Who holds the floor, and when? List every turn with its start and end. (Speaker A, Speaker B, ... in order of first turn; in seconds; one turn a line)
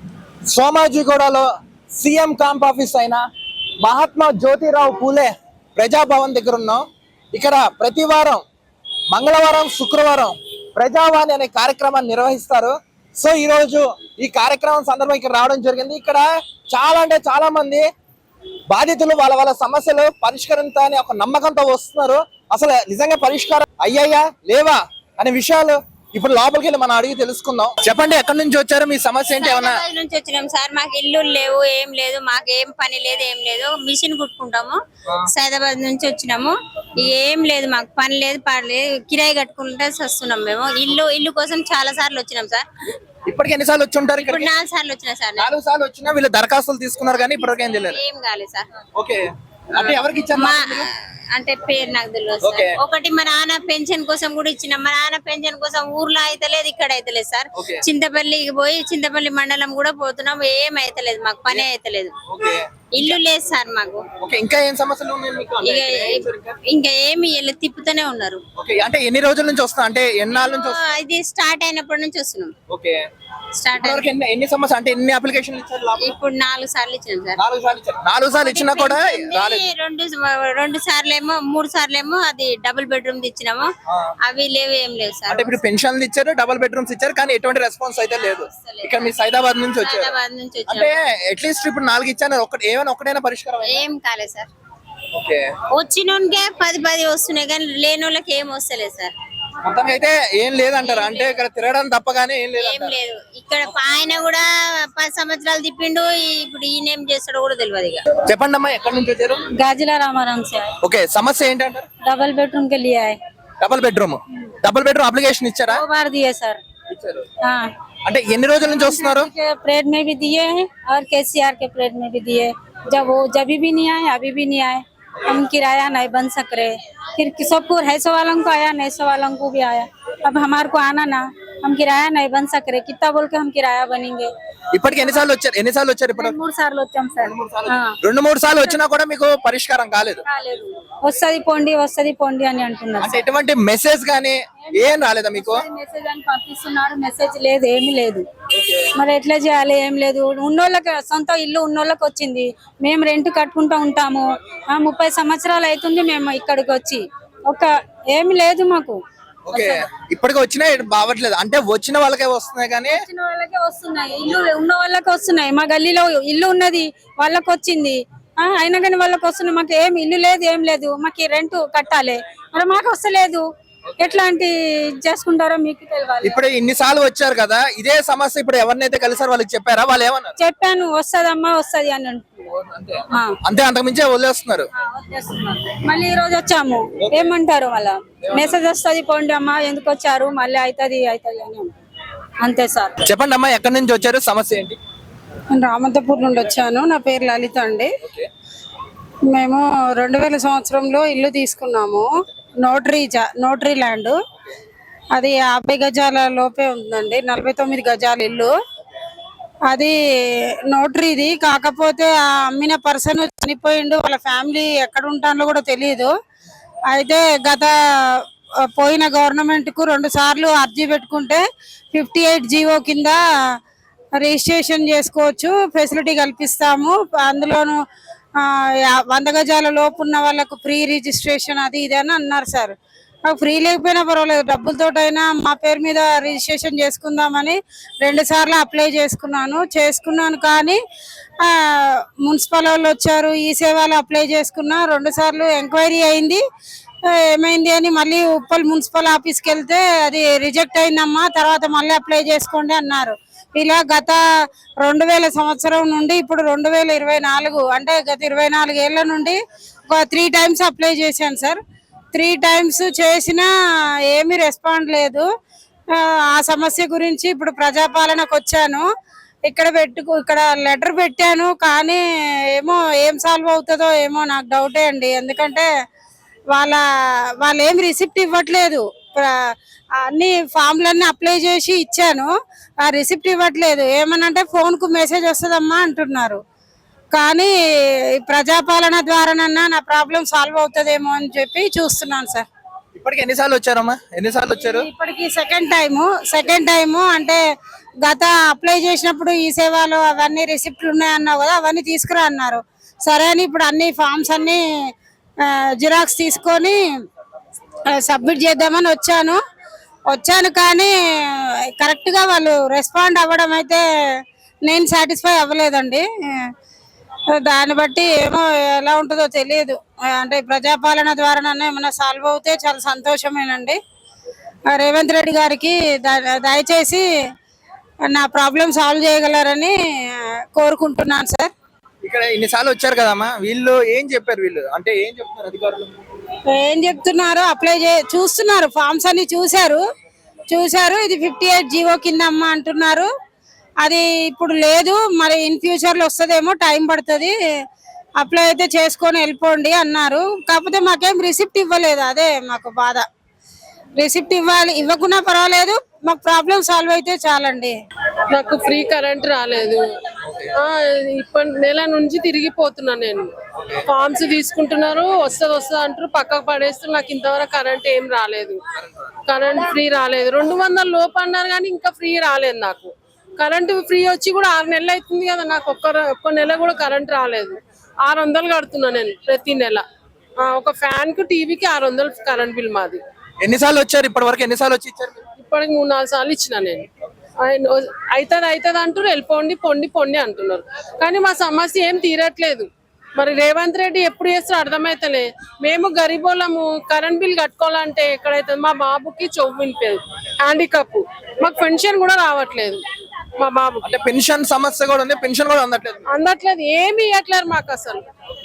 Speaker A: 0.5-3.2
Speaker A: 3.8-8.4
Speaker A: 9.1-17.9
Speaker A: 18.7-29.8
Speaker B: 29.4-34.8
Speaker B: 35.3-42.6
Speaker A: 43.3-44.6
Speaker B: 44.2-45.5
Speaker A: 45.4-48.0
Speaker B: 47.8-48.7
Speaker A: 49.0-50.9
Speaker B: 49.8-62.1
Speaker A: 52.4-52.8
Speaker A: 57.6-57.8
Speaker A: 61.5-61.7
Speaker A: 62.3-63.2
Speaker B: 63.0-64.0
Speaker A: 64.2-66.6
Speaker B: 65.6-68.4
Speaker A: 68.6-70.8
Speaker B: 70.3-72.5
Speaker A: 72.7-73.0
Speaker B: 73.6-74.1
Speaker A: 73.7-76.2
Speaker B: 76.0-77.3
Speaker A: 77.4-79.7
Speaker B: 78.4-83.7
Speaker B: 84.2-85.6
Speaker A: 85.3-93.9
Speaker B: 88.6-89.1
Speaker B: 89.8-90.9
Speaker B: 93.6-94.5
Speaker A: 95.2-95.5
Speaker B: 95.8-99.1
Speaker A: 99.6-103.0
Speaker B: 100.8-101.4
Speaker B: 102.6-108.0
Speaker A: 108.2-109.4
Speaker C: 109.6-110.7
Speaker A: 110.8-111.9
Speaker C: 112.0-113.2
Speaker A: 113.6-115.8
Speaker C: 115.7-116.6
Speaker A: 116.9-117.2
Speaker A: 118.0-119.3
Speaker C: 118.6-134.3
Speaker A: 134.7-136.3
Speaker C: 136.1-138.0
Speaker A: 137.2-140.2
Speaker C: 140.3-143.3
Speaker A: 143.0-145.6
Speaker C: 144.8-148.2
Speaker C: 149.0-159.0
Speaker A: 159.5-163.0
Speaker C: 159.5-159.8
Speaker C: 162.9-173.4
Speaker C: 174.0-176.4
Speaker A: 176.2-180.3
Speaker C: 180.4-182.4
Speaker A: 182.5-184.7
Speaker C: 184.8-191.7
Speaker A: 187.0-187.3
Speaker A: 188.3-188.6
Speaker C: 192.4-193.0
Speaker A: 193.1-194.8
Speaker D: 195.5-197.9
Speaker D: 199.3-202.1
Speaker D: 202.6-204.2
Speaker D: 205.1-208.5
Speaker D: 209.7-209.9
Speaker D: 210.7-216.1
Speaker D: 216.9-223.2
Speaker D: 224.2-227.8
Speaker D: 228.4-232.7
Speaker D: 233.3-240.8
Speaker D: 241.4-246.4
Speaker D: 247.1-254.2
Speaker D: 254.8-261.6
Speaker D: 262.1-263.5
Speaker D: 264.1-265.3
Speaker D: 265.9-268.9
Speaker D: 269.5-275.7
Speaker D: 276.5-276.8
Speaker D: 277.4-282.3
Speaker D: 282.8-286.4
Speaker D: 287.1-287.5
Speaker D: 288.1-292.5
Speaker A: 292.9-294.9
Speaker D: 294.6-297.4
Speaker D: 298.0-304.6
Speaker D: 305.4-306.8
Speaker D: 307.9-309.4
Speaker D: 310.1-313.8
Speaker D: 314.6-316.5
Speaker D: 317.4-323.8
Speaker D: 324.7-327.1
Speaker D: 328.1-331.5
Speaker A: 332.0-335.9
Speaker D: 336.5-339.8
Speaker D: 340.5-343.1
Speaker D: 343.8-347.3
Speaker D: 348.2-353.1
Speaker D: 354.0-357.7
Speaker E: 358.3-359.8
Speaker E: 360.6-363.3
Speaker E: 363.9-368.6
Speaker E: 369.3-377.6
Speaker E: 378.1-379.8
Speaker E: 380.4-383.0
Speaker A: 383.4-385.2
Speaker E: 385.4-386.9
Speaker E: 387.4-402.8
Speaker E: 403.4-403.9
Speaker A: 403.8-406.0
Speaker E: 406.1-408.0